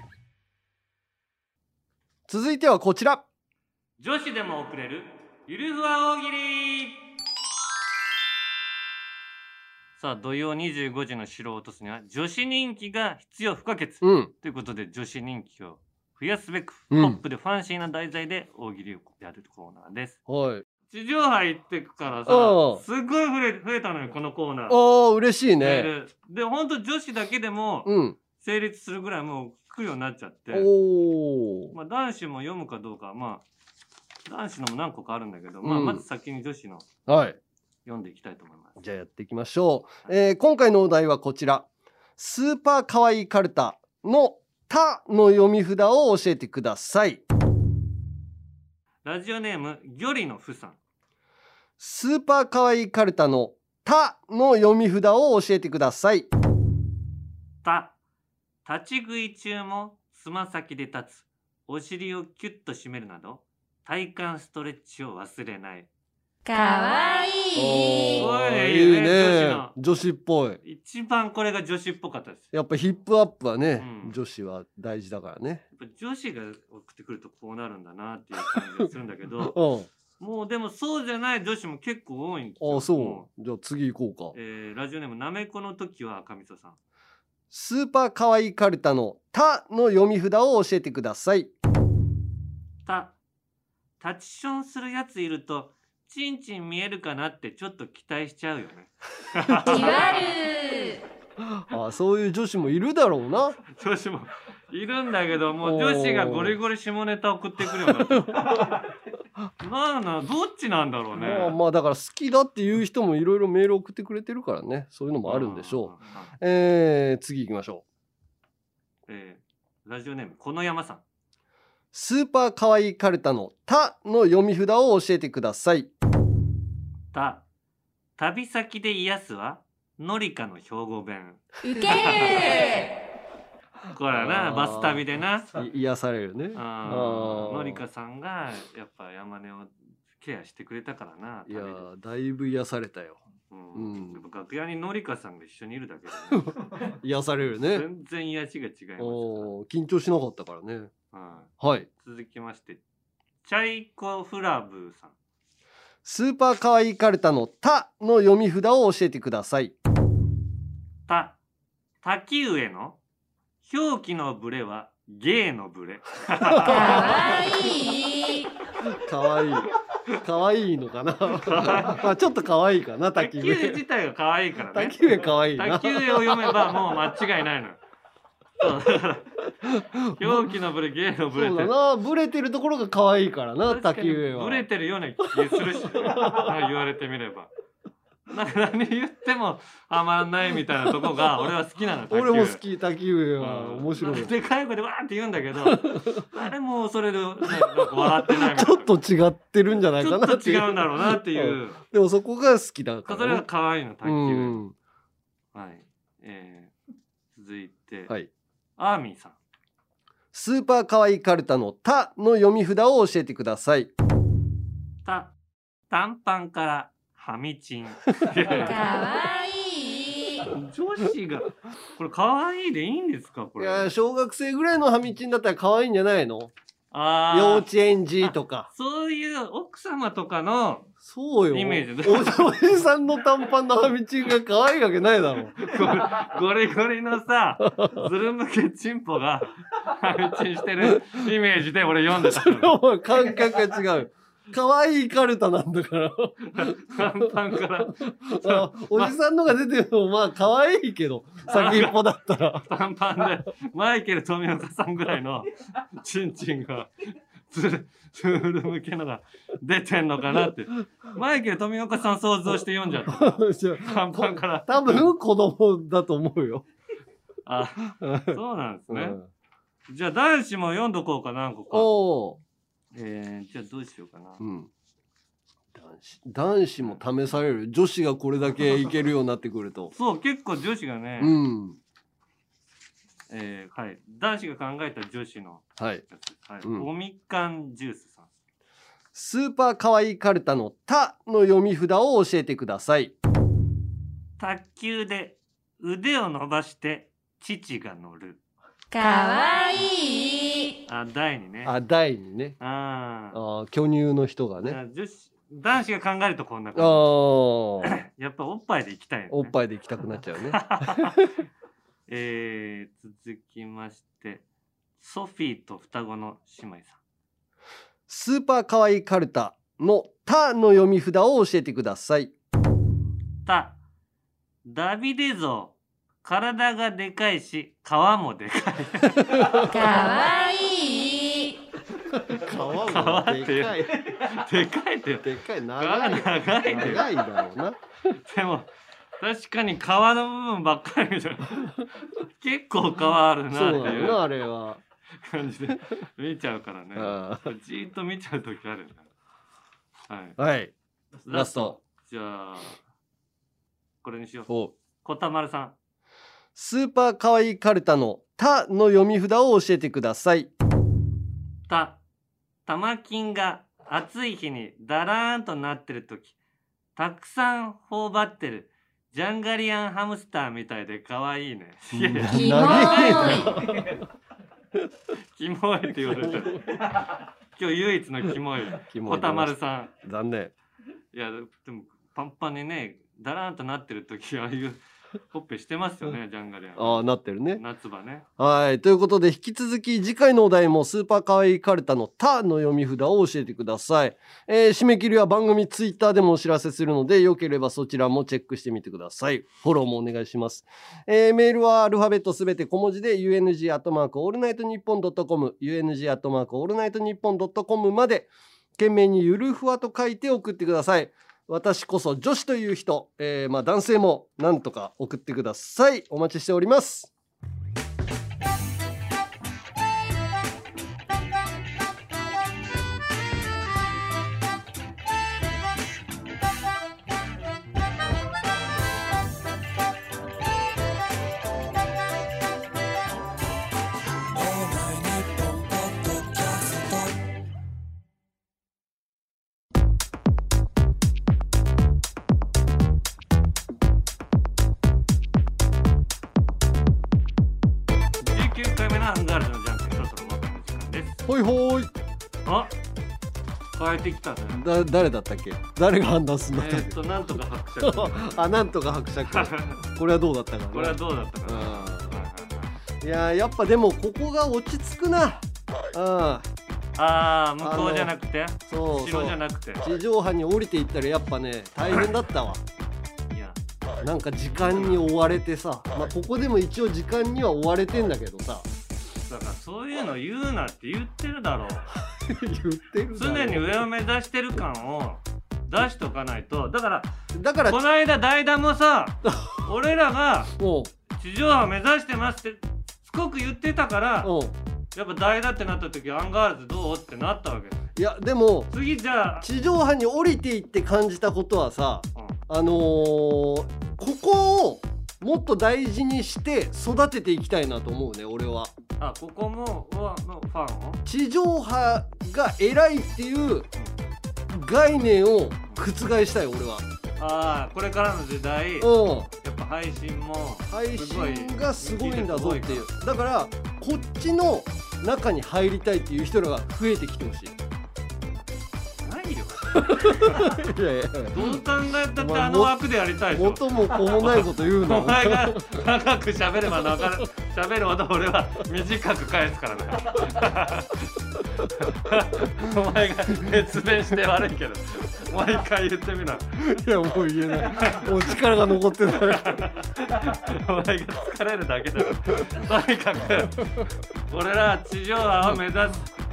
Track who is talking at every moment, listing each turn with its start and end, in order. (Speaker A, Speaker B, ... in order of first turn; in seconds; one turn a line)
Speaker A: 2.3-3.2
Speaker B: 4.0-7.0
Speaker B: 10.0-20.2
Speaker A: 14.0-14.3
Speaker A: 16.9-17.2
Speaker A: 20.3-20.6
Speaker B: 20.9-24.8
Speaker A: 22.3-22.8
Speaker A: 24.7-25.9
Speaker B: 25.6-30.7
Speaker A: 27.8-28.2
Speaker A: 30.5-31.7
Speaker B: 31.7-33.4
Speaker B: 34.3-36.9
Speaker A: 35.6-36.0
Speaker A: 37.1-37.4
Speaker B: 37.9-38.8
Speaker A: 38.8-41.7
Speaker A: 42.2-47.2
Speaker B: 49.0-50.8
Speaker A: 51.8-56.3
Speaker B: 57.6-57.9
Speaker B: 58.6-65.9
Speaker C: 66.4-68.2
Speaker A: 67.6-70.6
Speaker B: 68.2-69.7
Speaker B: 70.6-72.5
Speaker A: 72.5-75.6
Speaker B: 73.8-74.2
Speaker B: 75.7-79.6
Speaker A: 79.4-79.9
Speaker B: 80.2-83.3
Speaker A: 82.6-84.3
Speaker B: 84.3-86.8
Speaker A: 87.5-91.5
Speaker B: 92.8-93.2
Speaker B: 94.0-100.2
Speaker C: 99.7-101.0
Speaker A: 101.5-103.6
Speaker B: 103.7-108.8
Speaker A: 105.6-106.6
Speaker A: 107.7-108.7
Speaker B: 109.6-111.5
Speaker A: 111.1-117.8
Speaker B: 115.2-116.3
Speaker B: 119.1-121.0
Speaker A: 121.9-125.9
Speaker B: 127.1-127.4
Speaker B: 128.2-132.6
Speaker C: 131.6-132.9
Speaker B: 133.9-135.5
Speaker A: 134.1-135.0
Speaker A: 135.5-137.8
Speaker B: 136.5-141.8
Speaker A: 141.5-143.2
Speaker B: 143.5-146.5
Speaker A: 143.7-144.2
Speaker A: 146.4-147.8
Speaker B: 147.6-149.5
Speaker A: 149.0-150.9
Speaker B: 151.1-152.8
Speaker A: 151.6-151.9
Speaker B: 153.4-155.1
Speaker A: 156.0-159.7
Speaker B: 161.1-161.4
Speaker B: 162.0-163.0
Speaker B: 163.6-167.1
Speaker C: 166.6-168.5
Speaker A: 168.8-173.8
Speaker B: 171.3-172.0
Speaker B: 173.1-177.8
Speaker A: 174.7-176.8
Speaker B: 178.6-179.3
Speaker A: 179.9-180.5
Speaker B: 180.1-181.7
Speaker A: 181.3-184.7
Speaker B: 183.7-187.5
Speaker A: 185.3-186.5
Speaker B: 188.3-192.6
Speaker A: 192.1-194.3
Speaker B: 193.4-198.9
Speaker A: 195.7-196.2
Speaker A: 197.5-203.4
Speaker B: 200.0-201.8
Speaker B: 203.1-204.6
Speaker A: 204.0-204.7
Speaker B: 205.5-206.7
Speaker B: 207.3-208.1
Speaker B: 208.8-209.3
Speaker A: 210.3-213.9
Speaker B: 215.0-215.3
Speaker B: 215.9-218.8
Speaker C: 218.7-220.5
Speaker B: 220.5-223.9
Speaker A: 223.6-226.5
Speaker B: 226.9-227.7
Speaker A: 227.3-228.7
Speaker B: 228.7-230.9
Speaker A: 231.0-235.7
Speaker B: 231.5-232.6
Speaker B: 235.6-242.8
Speaker A: 242.1-247.3
Speaker B: 246.5-249.2
Speaker A: 247.8-252.6
Speaker B: 251.5-252.0
Speaker B: 252.6-265.1
Speaker A: 263.0-266.6
Speaker B: 267.4-269.2
Speaker A: 267.9-269.3
Speaker B: 269.9-271.9
Speaker A: 271.7-272.4
Speaker B: 272.9-274.4
Speaker A: 274.4-274.7
Speaker A: 275.7-279.9
Speaker B: 279.9-281.4
Speaker A: 281.2-281.8
Speaker B: 283.3-288.3
Speaker A: 285.8-286.0
Speaker A: 289.1-293.1
Speaker B: 294.4-298.4
Speaker C: 298.9-300.8
Speaker B: 300.9-301.7
Speaker A: 301.6-302.6
Speaker B: 302.6-303.4
Speaker A: 303.3-304.8
Speaker B: 304.6-307.1
Speaker A: 306.7-308.0
Speaker B: 307.8-309.5
Speaker A: 309.3-311.3
Speaker B: 310.4-311.3
Speaker B: 312.1-314.4
Speaker B: 315.0-317.0
Speaker A: 318.1-322.3
Speaker B: 323.4-323.8
Speaker B: 324.6-329.4
Speaker C: 329.6-331.6
Speaker A: 332.1-334.0
Speaker B: 332.5-335.3
Speaker A: 335.2-337.8
Speaker B: 335.8-337.1
Speaker B: 338.1-338.7
Speaker B: 339.2-344.2
Speaker A: 343.5-344.8
Speaker B: 345.2-349.1
Speaker A: 346.9-347.5
Speaker B: 350.1-350.4
Speaker A: 350.4-350.7
Speaker A: 351.2-351.8
Speaker B: 351.2-352.8
Speaker B: 354.0-354.5
Speaker A: 354.5-354.7
Speaker B: 355.0-355.7
Speaker A: 356.6-360.5
Speaker B: 361.7-362.0
Speaker B: 362.6-366.3
Speaker B: 366.9-373.7
Speaker A: 371.9-374.0
Speaker C: 372.3-373.5
Speaker B: 375.4-379.9
Speaker A: 378.8-380.5
Speaker B: 381.1-384.8
Speaker B: 385.3-388.3
Speaker A: 386.8-387.6
Speaker A: 388.4-417.1
Speaker C: 434.3-437.2
Speaker B: 448.2-451.2
Speaker A: 451.3-451.9
Speaker B: 452.4-452.7
Speaker B: 453.7-454.6
Speaker A: 454.5-457.0
Speaker B: 456.5-458.4
Speaker A: 457.8-462.2
Speaker B: 459.3-459.8
Speaker B: 460.7-462.7
Speaker A: 463.0-466.5
Speaker B: 467.0-469.9
Speaker A: 467.6-468.1
Speaker A: 468.7-472.6
Speaker B: 473.3-473.6
Speaker A: 474.0-478.7
Speaker B: 474.5-475.0
Speaker B: 479.3-481.9
Speaker A: 482.0-483.8
Speaker B: 483.1-487.1
Speaker A: 487.3-487.8
Speaker B: 487.7-490.5
Speaker A: 489.3-489.5
Speaker A: 490.6-490.9
Speaker B: 491.1-494.3
Speaker A: 494.2-494.6
Speaker B: 494.9-497.8
Speaker A: 497.9-498.7
Speaker B: 498.7-499.5
Speaker A: 499.4-508.7
Speaker B: 509.0-511.0
Speaker A: 511.0-513.7
Speaker A: 514.5-516.8
Speaker B: 517.2-518.9
Speaker A: 518.8-519.3
Speaker B: 519.4-522.9
Speaker A: 520.7-527.5
Speaker B: 529.0-530.5
Speaker A: 529.7-531.5
Speaker B: 531.3-546.8
Speaker A: 532.1-532.8
Speaker A: 533.3-535.8
Speaker A: 546.6-549.7
Speaker B: 547.5-548.4
Speaker B: 549.1-553.6
Speaker B: 554.3-556.0